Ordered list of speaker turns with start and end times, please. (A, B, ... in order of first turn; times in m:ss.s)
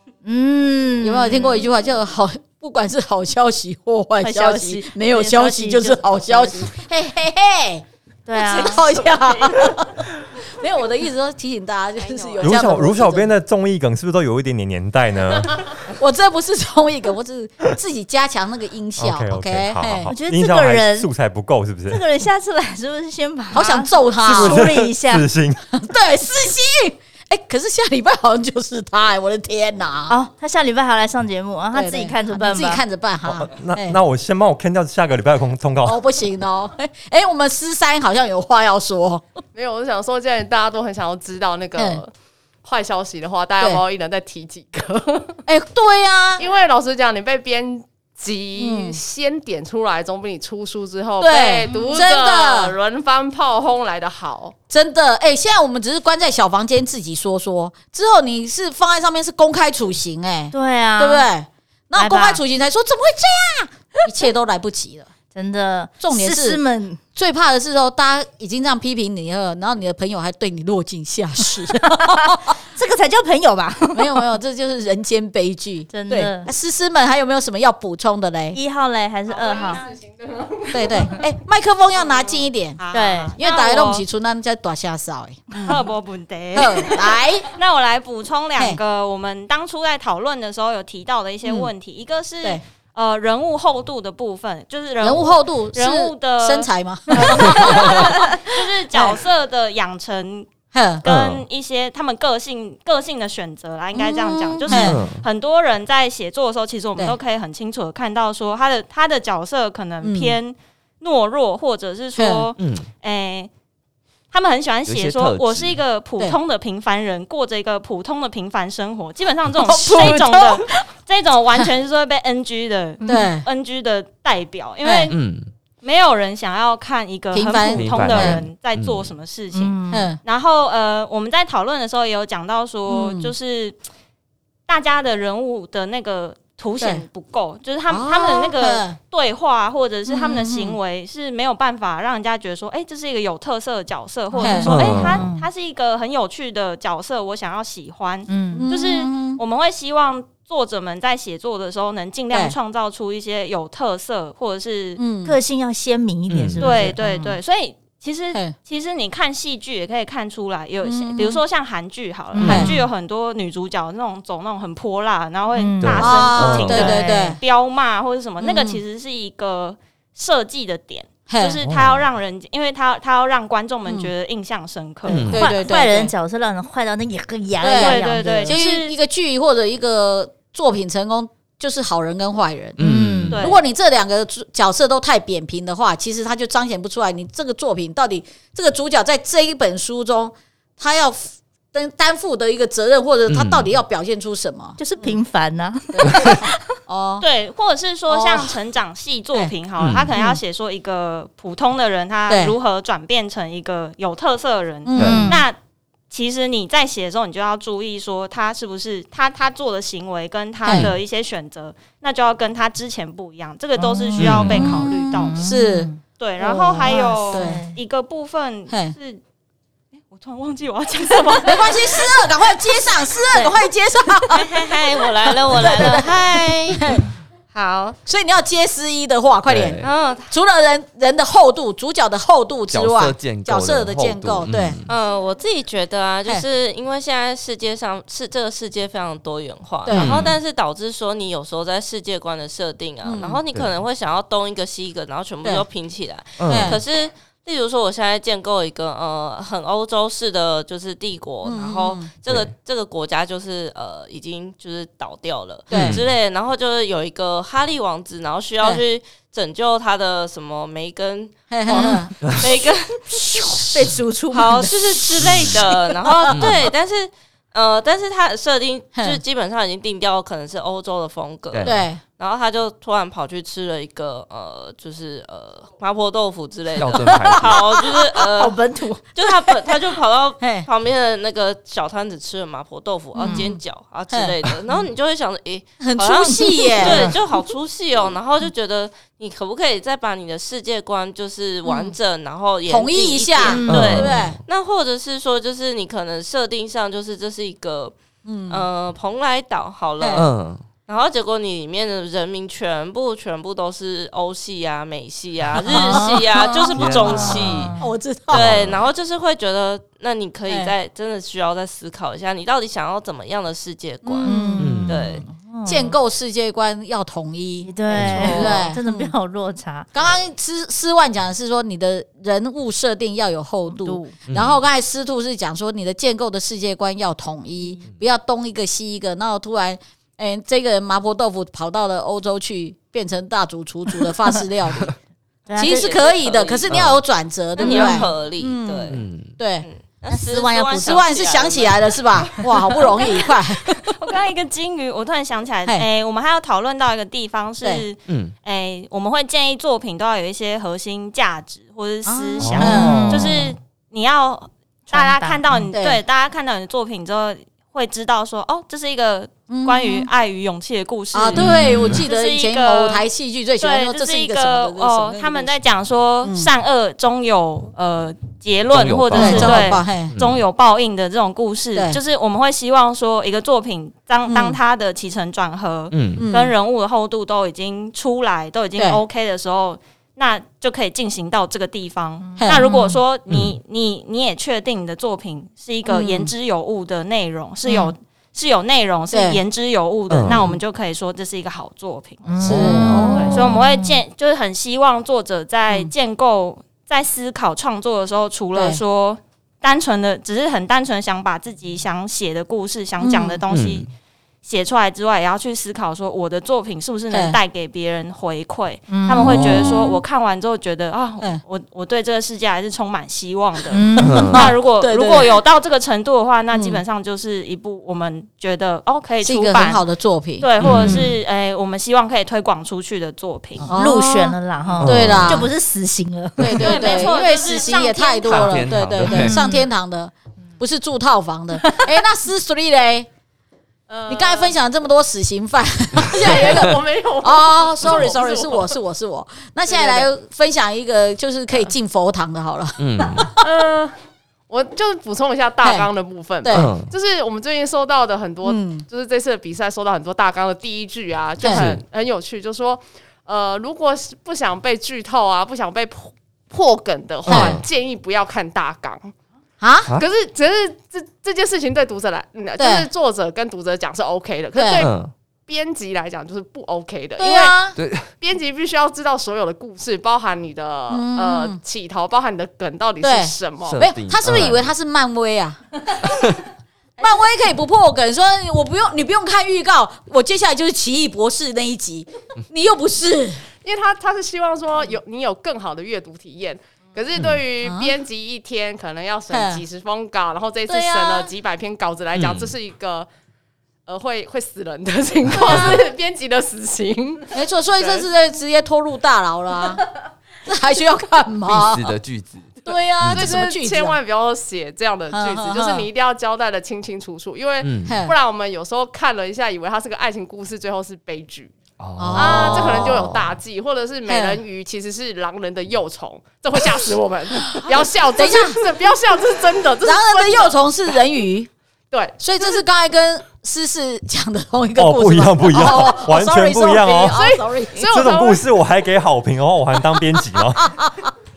0:00.2-0:01.7 A
0:01.0-0:13.3 B
0:04.2-0:06.7 A
0:08.3-0:08.9 A
0:12.0-0:12.4 C
0:12.4-0:15.7 D
0:15.9-0:20.1 B
0:19.0-0:22.0 D
0:20.1-0:21.1 A
0:21.9-0:25.3 A
0:23.5-0:24.7 B
0:24.3-0:25.8 D
0:25.7-0:30.2 B
0:30.1-0:32.8 A
0:31.7-0:34.0 B
0:33.3-0:36.0 D
0:35.8-0:39.3 B
0:39.6-0:42.1 E
0:41.8-0:42.0 B
0:42.6-0:45.4 E
0:45.5-0:46.5 B
0:46.4-0:54.6 E
0:48.6-0:49.0 B
0:51.2-0:52.8 B
0:51.7-0:52.0 A
0:54.7-1:05.1 B
1:00.5-1:01.3 A
1:02.0-1:02.4 A
1:05.4-1:07.0 A
1:06.0-1:06.6 B
1:07.2-1:12.5 B
1:11.9-1:14.2 A
1:13.9-1:18.6 B
1:15.9-1:16.5 A
1:18.5-1:19.8 A
1:19.3-1:21.2 E
1:20.7-1:22.8 B
1:22.8-1:24.0 F
1:22.9-1:23.4 A
1:23.4-1:25.8 B
1:25.6-1:40.5 F
1:26.5-1:27.5 B
1:31.4-1:31.7 B
1:35.0-1:38.2 B
1:38.9-1:39.2 B
1:40.7-1:41.0 B
1:41.0-1:53.5 F
1:41.0-1:41.4 G
1:44.0-1:45.0 B
1:44.7-1:45.2 G
1:50.0-1:50.4 B
1:52.2-1:52.5 B
1:52.6-1:52.9 G
1:54.3-2:05.2 F
1:54.9-1:55.8 G
1:59.6-2:00.6 B
2:03.0-2:03.3 A
2:03.1-2:03.4 B
2:04.8-2:05.1 B
2:05.1-2:05.5 G
2:05.8-2:13.8 F
2:07.3-2:08.4 B
2:07.7-2:09.1 G
2:09.5-2:10.1 A
2:09.9-2:10.2 B
2:12.9-2:13.3 B
2:14.7-2:35.0 F
2:17.9-2:19.0 B
2:20.1-2:20.8 B
2:24.3-2:25.5 A
2:24.4-2:24.8 B
2:24.7-2:25.3 G
2:28.3-2:28.7 A
2:28.5-2:29.4 B
2:35.0-2:35.4 B
2:35.2-2:37.4 A
2:36.3-2:36.7 G
2:36.6-2:55.3 F
2:40.8-2:41.4 B
2:42.3-2:42.8 A
2:42.4-2:42.7 G
2:42.4-2:42.7 B
2:45.6-2:46.2 A
2:45.8-2:46.9 G
2:46.0-2:47.4 B
2:46.7-2:47.3 A
2:48.4-2:48.8 B
2:51.3-2:51.6 B
2:51.6-2:52.1 G
2:55.1-2:55.5 G
2:55.1-2:58.6 A
2:55.2-2:56.1 B
2:57.6-3:02.8 B
2:57.6-2:59.0 F
3:02.8-3:03.4 G
3:02.8-3:03.4 A
3:03.3-3:03.6 F
3:03.4-3:15.2 B
3:13.3-3:13.7 G
3:14.8-3:16.6 A
3:15.9-3:17.2 B
3:17.2-3:25.6 F
3:18.1-3:18.6 B
3:19.8-3:20.1 G
3:22.3-3:22.6 B
3:24.9-3:25.3 B
3:25.0-3:25.3 G
3:25.0-3:25.4 A
3:26.1-3:35.4 F
3:30.6-3:30.9 B
3:30.7-3:31.0 G
3:33.8-3:36.0 A
3:34.2-3:34.7 G
3:35.4-3:37.7 B
3:36.1-3:39.2 F
3:36.9-3:37.8 A
3:38.7-3:39.0 B
3:40.1-3:42.2 F
3:41.4-3:44.5 B
3:44.3-3:46.8 C
3:45.6-3:47.0 B
3:47.5-3:48.0 C
3:48.1-3:54.8 B
3:49.5-3:49.9 G
3:49.8-3:50.3 C
3:52.7-3:54.9 G
3:54.9-4:23.7 C
3:59.9-4:00.3 B
3:59.9-4:00.4 G
4:03.0-4:03.4 B
4:06.4-4:06.8 G
4:06.5-4:06.8 B
4:11.4-4:12.1 B
4:15.7-4:16.0 B
4:15.7-4:16.1 G
4:21.5-4:22.1 B
4:23.6-4:24.7 A
4:24.3-4:38.6 C
4:25.2-4:25.6 G
4:26.3-4:26.6 G
4:31.5-4:31.8 G
4:31.6-4:32.0 B
4:36.8-4:37.6 G
4:37.5-4:39.0 A
4:39.2-4:57.9 C
4:40.4-4:40.7 B
4:43.2-4:43.5 A
4:43.2-4:43.6 B
4:45.8-4:47.1 B
4:51.7-4:51.9 B
4:52.7-4:54.4 B
4:53.4-4:53.8 A
4:53.6-4:54.4 G
4:58.2-4:58.6 B
4:58.5-5:00.3 C
5:00.0-5:00.2 B
5:00.2-5:00.6 G
5:00.9-5:07.7 C
5:05.7-5:07.8 A
5:05.7-5:06.1 B
5:06.8-5:07.7 G
5:07.8-5:08.5 B
5:08.3-5:08.8 G
5:08.3-5:15.2 C
5:14.0-5:14.8 B
5:14.3-5:16.0 A
5:14.6-5:15.1 G
5:15.6-5:19.1 B
5:17.6-5:19.9 A
5:17.9-5:18.4 G
5:18.1-5:18.6 C
5:19.9-5:34.9 B
5:23.7-5:24.2 A
5:24.3-5:24.6 G
5:35.5-5:36.0 A
5:35.6-5:43.8 B
5:35.6-5:36.7 C
5:36.7-5:37.0 G
5:37.6-5:39.0 C
5:37.6-5:38.0 A
5:38.9-5:39.4 G
5:39.6-5:43.1 C
5:44.0-6:03.1 F
5:48.1-5:48.3 G
5:52.1-5:53.2 B
5:52.4-5:53.5 G
5:52.7-5:53.1 A
5:55.0-5:55.6 A
5:55.7-5:56.0 B
5:59.5-6:00.1 B
6:01.1-6:05.6 B
6:01.4-6:02.0 G
6:03.6-6:43.9 F
6:06.2-6:06.5 B
6:08.7-6:10.4 G
6:09.1-6:10.1 B
6:14.3-6:14.6 B
6:15.9-6:16.3 G
6:16.2-6:16.5 B
6:22.2-6:23.0 A
6:22.4-6:22.7 B
6:23.3-6:23.6 G
6:25.9-6:26.3 B
6:27.7-6:27.9 A
6:29.1-6:29.4 B
6:30.1-6:30.4 G
6:32.3-6:34.0 A
6:32.4-6:33.4 B
6:38.6-6:38.8 B
6:43.0-6:43.4 B
6:43.5-6:43.9 G
6:44.4-6:59.8 F
6:47.1-6:47.4 B
6:48.9-6:49.7 A
6:49.2-6:50.0 G
6:53.7-6:54.3 A
6:54.0-6:54.5 G
6:54.0-6:55.3 B
6:56.5-6:56.8 B
6:59.2-7:00.9 B
7:00.4-7:03.7 F
7:00.6-7:01.0 G
7:03.6-7:07.1 A
7:03.7-7:05.5 B
7:04.8-7:05.5 G
7:06.4-7:13.1 B
7:06.6-7:08.7 F
7:08.3-7:09.4 G
7:09.0-7:09.7 A
7:13.9-7:14.5 E
7:14.1-7:23.3 B
7:16.2-7:18.8 E
7:19.7-7:20.1 E
7:22.8-7:23.3 G
7:23.4-7:24.0 E
7:24.5-7:39.1 E
7:25.6-7:25.9 B
7:26.4-7:26.7 B
7:26.5-7:26.9 G
7:28.4-7:28.8 B
7:31.4-7:31.7 B
7:31.4-7:31.8 G
7:37.3-7:37.6 G
7:37.3-7:37.6 B
7:39.6-7:39.9 B
7:40.0-7:45.0 E
7:42.6-7:42.9 B
7:44.5-7:44.9 B
7:44.8-7:45.1 G
7:45.5-7:47.6 E
7:47.2-7:47.8 B
7:47.8-7:48.1 G
7:48.2-7:53.8 E
7:50.9-7:51.6 B
7:53.0-7:55.8 B
7:53.7-7:54.7 G
7:57.0-8:03.5 B
8:03.6-8:13.1 E
8:07.6-8:07.9 B
8:09.3-8:09.6 B
8:10.7-8:11.3 B
8:12.2-8:12.5 G
8:13.9-8:18.1 E
8:15.4-8:15.8 B
8:17.3-8:19.8 B
8:20.5-8:22.0 B
8:21.5-8:23.4 G
8:22.6-8:24.0 B
8:22.7-8:31.5 E
8:25.1-8:25.9 B
8:27.6-8:28.0 G
8:27.8-8:28.2 B
8:31.8-8:33.2 G
8:32.0-8:32.9 B
8:32.1-8:40.6 E
8:34.1-8:34.4 B
8:37.4-8:38.6 B
8:39.8-8:41.5 B
8:41.9-8:42.6 E
8:42.2-8:47.9 B
8:44.8-8:47.2 D
8:47.1-8:48.5 E
8:47.8-8:50.7 D
8:50.4-8:51.1 B